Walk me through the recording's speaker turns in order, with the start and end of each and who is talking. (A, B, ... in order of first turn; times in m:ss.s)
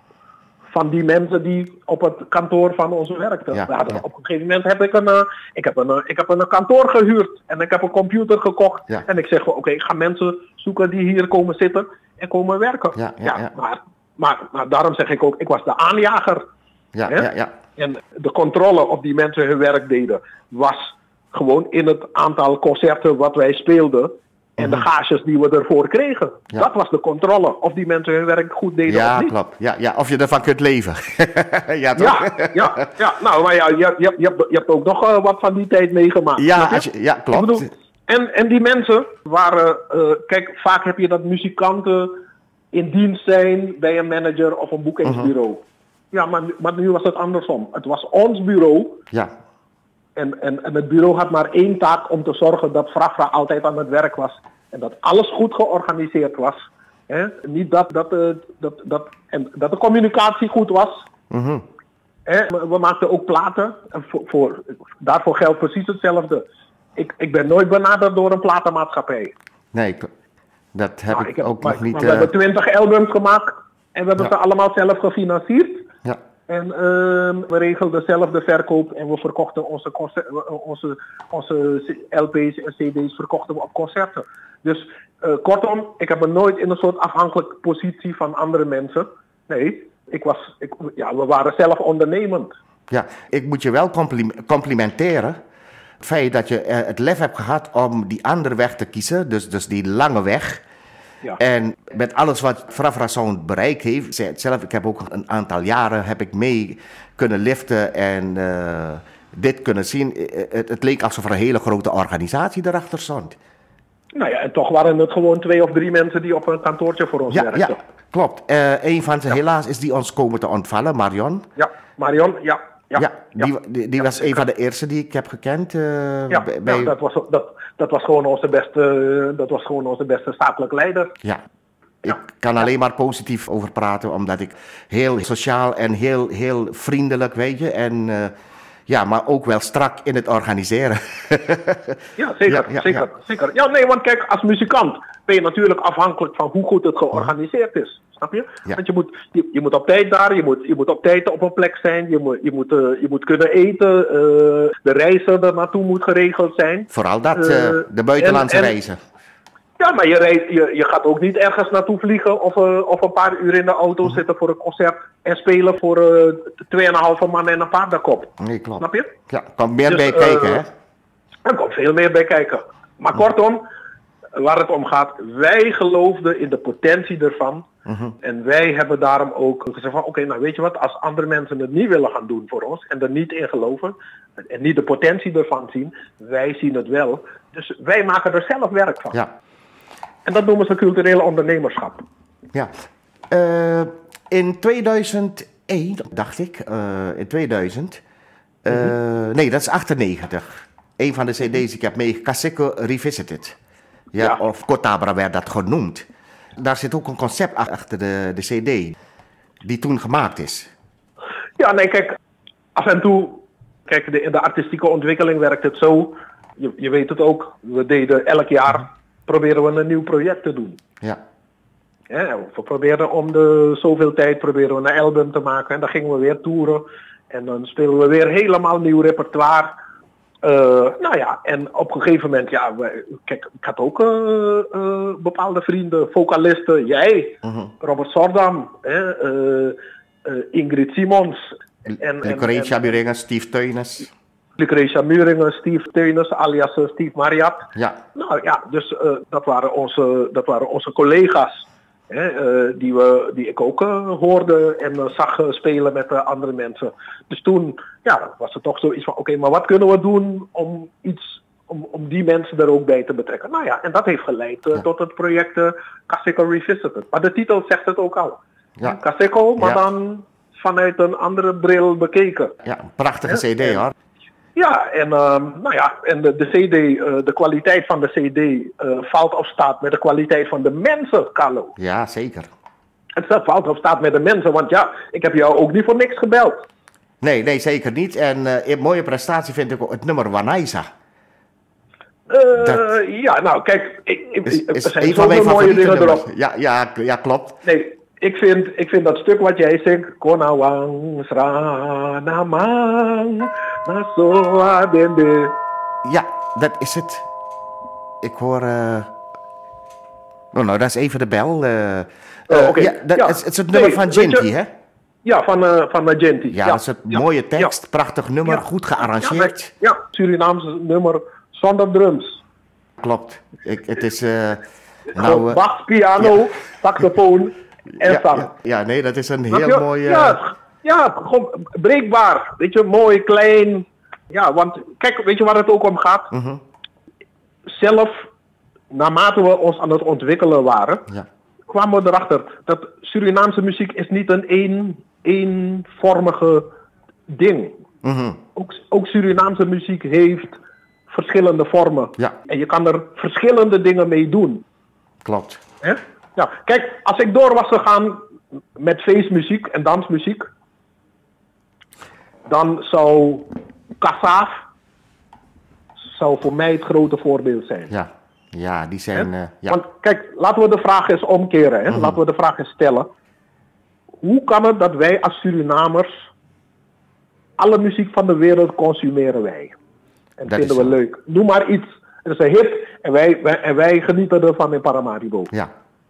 0:00.7-0:16.4 A
0:03.5-0:04.0 B
0:13.0-0:13.5 B
0:16.9-0:17.6 B
0:17.1-0:29.3 A
0:24.6-0:24.8 B
0:28.9-0:32.8 B
0:32.0-0:49.0 A
0:36.4-0:37.7 B
0:50.2-1:01.1 A
1:01.3-1:01.6 B
1:02.3-1:06.4 A
1:07.0-1:09.3 A
1:09.7-1:10.1 B
1:10.7-1:12.3 B
1:11.1-1:15.9 A
1:16.5-1:32.5 A
1:32.9-1:35.4 B
1:36.0-1:40.6 B
1:41.4-1:53.4 B
1:54.1-1:57.8 A
1:57.3-2:01.5 B
2:01.6-2:03.5 A
2:03.0-2:06.9 B
2:04.1-2:04.4 A
2:06.3-2:11.1 A
2:12.0-2:18.4 B
2:18.9-2:23.0 B
2:22.2-2:38.7 A
2:36.9-2:39.0 B
2:39.8-2:49.1 A
2:48.4-2:50.7 B
2:49.9-2:50.6 A
2:51.4-2:53.7 A
2:54.4-2:57.7 A
2:57.9-2:58.1 B
2:58.2-3:09.2 A
3:10.2-3:12.0 A
3:13.3-3:18.0 B
3:18.6-3:23.6 B
3:24.1-3:26.1 B
3:26.6-3:28.9 B
3:29.6-3:30.7 B
3:31.6-3:32.2 A
3:32.8-3:40.8 A
3:42.1-3:49.8 A
3:50.4-4:02.9 A
3:57.4-3:57.7 B
4:02.2-4:04.1 B
4:04.6-4:32.5 A
4:32.6-4:33.9 B
4:33.3-4:33.8 A
4:34.6-4:41.7 A
4:41.8-4:42.5 B
4:43.2-4:46.6 A
4:47.2-4:50.9 B
4:52.3-4:56.3 A
4:54.5-4:57.6 B
4:57.6-5:05.6 A
5:06.0-5:07.2 B
5:08.2-5:09.1 B
5:10.5-5:14.7 B
5:12.5-5:14.5 A
5:15.2-5:17.8 A
5:16.5-5:19.7 B
5:18.5-5:22.4 A
5:23.0-5:25.6 B
5:25.1-5:28.5 A
5:28.0-5:30.4 B
5:29.5-5:36.3 A
5:36.3-5:36.6 B
5:37.7-5:38.3 A
5:38.9-5:41.1 A
5:41.7-5:46.7 A
5:47.3-5:47.8 A
5:48.0-5:48.4 B
5:48.6-5:50.6 A
5:51.1-5:54.6 A
5:55.2-5:55.6 B
5:55.8-5:58.2 A
5:58.8-6:00.4 A
6:02.5-6:04.6 A
6:06.0-6:07.9 A
6:07.9-6:09.8 B
6:09.1-6:13.1 A
6:14.2-6:16.1 A
6:17.6-6:19.8 A
6:20.4-6:25.5 A
6:20.5-6:20.9 B